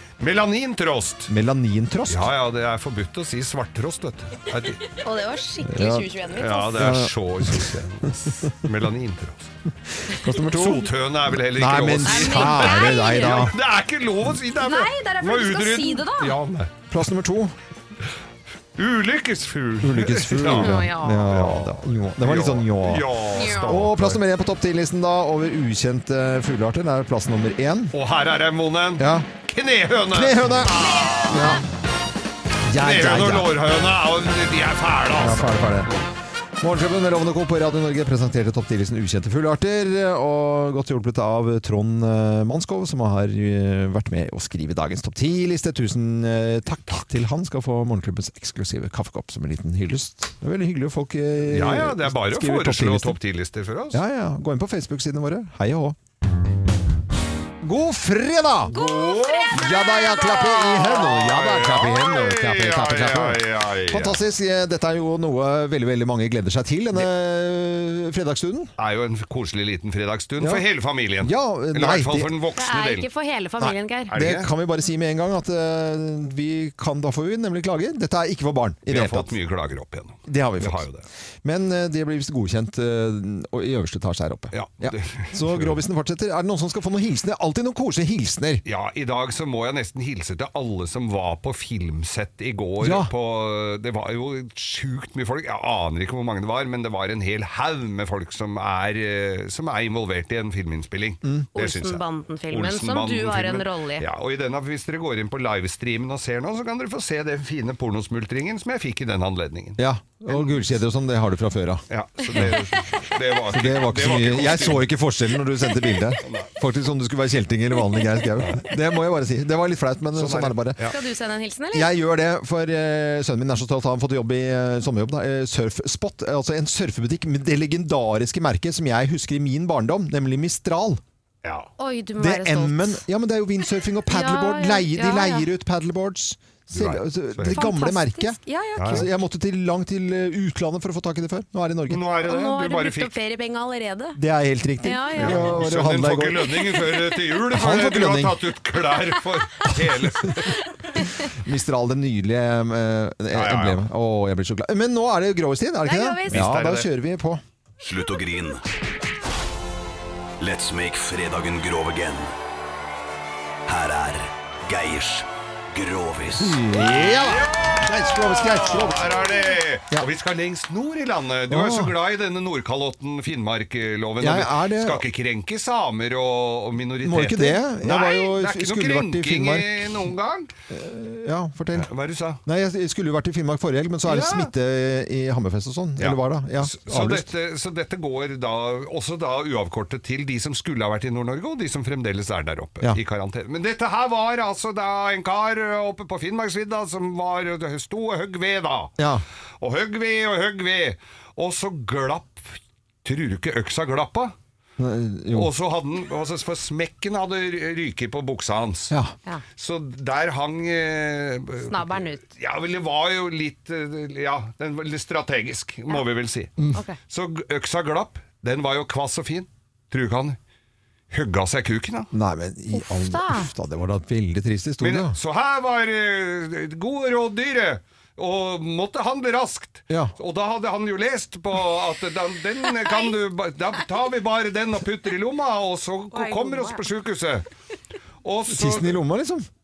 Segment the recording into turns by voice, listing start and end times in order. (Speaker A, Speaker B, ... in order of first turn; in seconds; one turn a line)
Speaker A: 0.2-1.3
Speaker B: 1.3-2.3
Speaker A: 2.1-4.8
Speaker C: 4.8-6.8
Speaker B: 5.7-6.1
Speaker A: 6.3-9.5
Speaker B: 6.7-7.8
Speaker B: 9.9-13.6
Speaker A: 10.4-16.7
Speaker C: 12.0-13.5
Speaker C: 14.5-16.4
Speaker B: 16.9-17.5
Speaker A: 18.8-24.2
Speaker B: 19.8-27.9
Speaker C: 20.6-21.3
Speaker C: 23.3-23.8
Speaker A: 27.9-31.6
Speaker B: 29.0-29.3
Speaker B: 30.1-31.6
Speaker B: 32.6-33.5
Speaker A: 32.8-36.0
Speaker B: 35.1-35.9
Speaker B: 36.6-53.2
Speaker A: 51.4-54.0
Speaker B: 53.9-56.0
Speaker B: 57.6-58.8
Speaker C: 58.7-61.0
Speaker A: 58.7-59.7
Speaker B: 59.5-68.7
Speaker A: 60.5-64.2
Speaker A: 68.8-73.0
Speaker B: 70.4-70.6
Speaker B: 71.2-72.3
Speaker C: 72.6-74.1
Speaker B: 73.6-79.3
Speaker A: 74.1-74.5
Speaker A: 78.9-81.0
Speaker B: 80.2-80.9
Speaker B: 81.4-88.6
Speaker A: 84.5-85.8
Speaker A: 88.6-110.6
Speaker B: 92.8-93.1
Speaker C: 101.5-104.0
Speaker B: 109.8-112.6
Speaker A: 111.9-114.9
Speaker B: 113.5-120.8
Speaker A: 116.2-116.5
Speaker A: 118.4-118.7
Speaker A: 120.1-121.0
Speaker C: 120.9-121.9
Speaker B: 121.7-131.0
Speaker A: 131.4-131.7
Speaker C: 131.8-133.0
Speaker B: 132.2-142.1
Speaker C: 134.1-135.5
Speaker A: 136.7-137.6
Speaker C: 137.5-139.1
Speaker A: 138.8-139.0
Speaker A: 141.9-143.1
Speaker C: 142.2-144.2
Speaker B: 144.1-146.6
Speaker C: 144.8-145.5
Speaker A: 145.2-150.6
Speaker B: 147.5-148.4
Speaker C: 150.8-151.3
Speaker B: 151.2-157.4
Speaker A: 153.3-153.8
Speaker C: 155.8-156.4
Speaker A: 156.3-156.9
Speaker D: 157.8-158.6
Speaker D: 160.4-162.3
Speaker D: 163.7-166.7
Speaker B: 166.4-169.2
Speaker A: 166.7-180.5
Speaker B: 171.5-171.9
Speaker B: 174.2-175.0
Speaker B: 177.0-180.0
Speaker B: 180.7-181.9
Speaker A: 181.7-182.4
Speaker B: 182.4-187.3
Speaker A: 184.0-184.5
Speaker A: 186.0-198.9
Speaker B: 199.0-199.2
Speaker A: 199.6-204.3
Speaker B: 204.8-205.5
Speaker A: 205.3-208.9
Speaker A: 209.6-216.5
Speaker C: 211.7-212.3
Speaker A: 217.1-220.4
Speaker A: 221.1-222.1
Speaker B: 222.1-225.2
Speaker C: 222.7-223.5
Speaker A: 224.8-237.4
Speaker C: 232.8-233.1
Speaker C: 236.1-236.8
Speaker A: 238.2-239.0
Speaker B: 238.5-239.5